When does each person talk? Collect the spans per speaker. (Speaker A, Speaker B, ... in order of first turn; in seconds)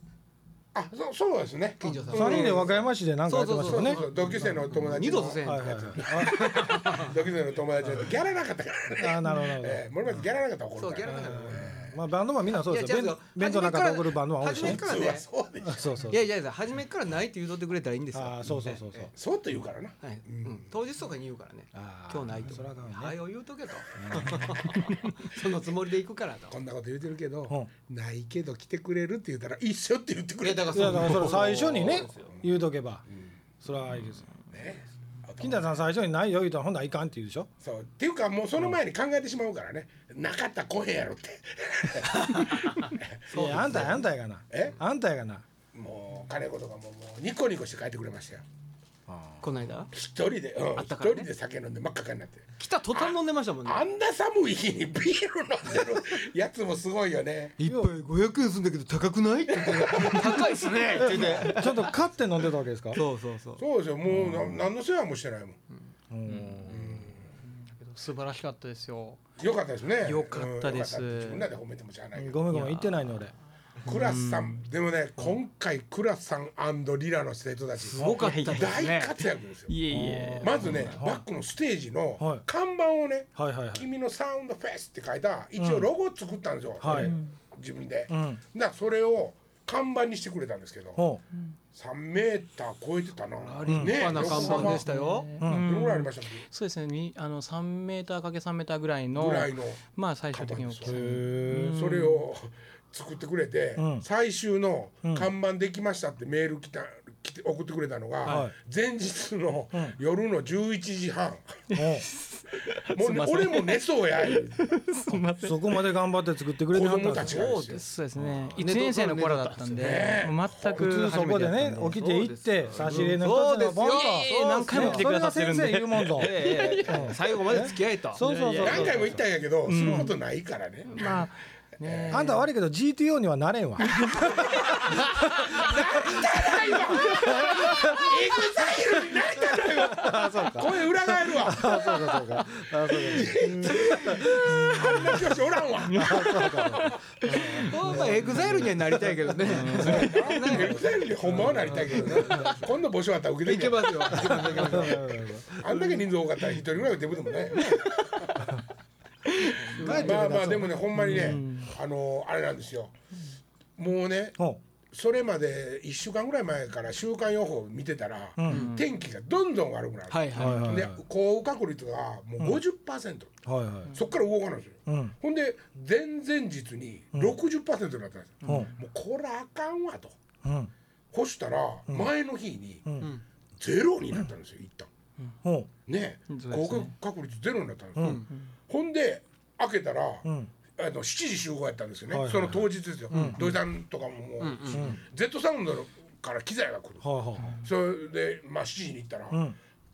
Speaker A: 0.7-2.9, 3.6-12.0, 14.6-16.1, 19.1-20.6, 26.5-32.4, 34.5-35.7, 37.6-44.0, 44.5-44.8, 45.7-48.5, 49.9-57.6, 59.6-61.5, 63.6-65.6, 66.7-67.2, 69.4-72.5, 73.8-79.7, 80.4-91.1, 91.7-94.8, 95.4-96.5, 99.2-101.0, 101.7-111.6, 112.9-114.7, 116.7-117.8, 119.8-120.9, 128.6-131.3, 131.8-132.3, 134.2-142.2, 143.0-147.0, 149.7-158.5, 159.8-162.9, 163.8-164.4, 164.9-173.3, 173.9-180.2, 181.1-182.9, 183.6-184.9, 185.9-199.5
Speaker B: 1.8-7.2, 10.8-11.8, 12.5-15.3, 16.1-19.1, 20.0-26.5, 30.4-32.4, 42.1-44.0, 49.4-49.9, 50.8-51.3, 52.6-53.9, 57.6-62.0, 62.9-63.6, 77.8-79.2, 93.6-95.3, 117.2-117.8, 118.6-120.2, 121.0-125.1, 126.2-128.9, 143.1-144.7, 147.4-152.7, 153.4-155.2, 159.6-160.5, 168.5-168.8, 170.1-170.8, 188.0-188.3, 193.1-193.5, 194.4-195.0
Speaker C: 2.1-4.0, 5.4-6.7, 9.0-9.8, 11.1-14.8, 15.6-16.2, 18.1-19.1, 21.7-23.2, 24.0-24.6, 30.7-33.0, 33.6-34.3, 35.4-37.5, 43.3-45.5, 49.1-49.4, 57.6-57.9, 61.0-63.0, 64.1-64.6, 66.1-67.1, 72.2-73.3, 78.0-78.3, 79.9-81.2, 82.2-82.5, 83.4-83.9, 85.6-85.9, 86.8-87.2, 88.1-88.4, 91.0-91.2, 93.7-94.2, 95.4-95.7, 100.9-101.8, 103.8-104.0, 105.0-105.3, 108.3-108.5, 111.7-112.1, 115.1-117.4, 118.2-118.5, 120.8-129.2, 132.1-134.5, 135.6-136.2, 137.0-138.1, 139.4-145.2, 145.9-149.0, 149.5-150.1, 151.3-152.5, 154.2-155.6, 159.8-161.4, 168.4-168.7, 170.3-171.0, 173.5-173.9, 174.9-175.2, 178.4-178.7, 180.4-180.7, 182.8-183.1, 185.4-185.7, 188.0-188.2, 190.2-190.5, 192.1-193.6, 194.7-195.0, 197.0-197.6, 199.3-199.6
Speaker D: 66.2-66.8, 67.4-69.2, 70.0-71.5, 72.5-73.3, 73.9-74.6, 78.2-78.8, 79.7-81.0, 86.8-87.3, 93.5-102.3, 111.7-115.9, 117.7-121.9, 122.8-123.1, 123.8-129.0, 129.7-130.2, 130.9-132.5, 133.8-135.7, 137.1-137.9, 145.9-148.6, 149.4-150.6, 159.3-159.9, 160.9-161.7, 168.5-168.8, 178.4-178.7, 186.3-186.9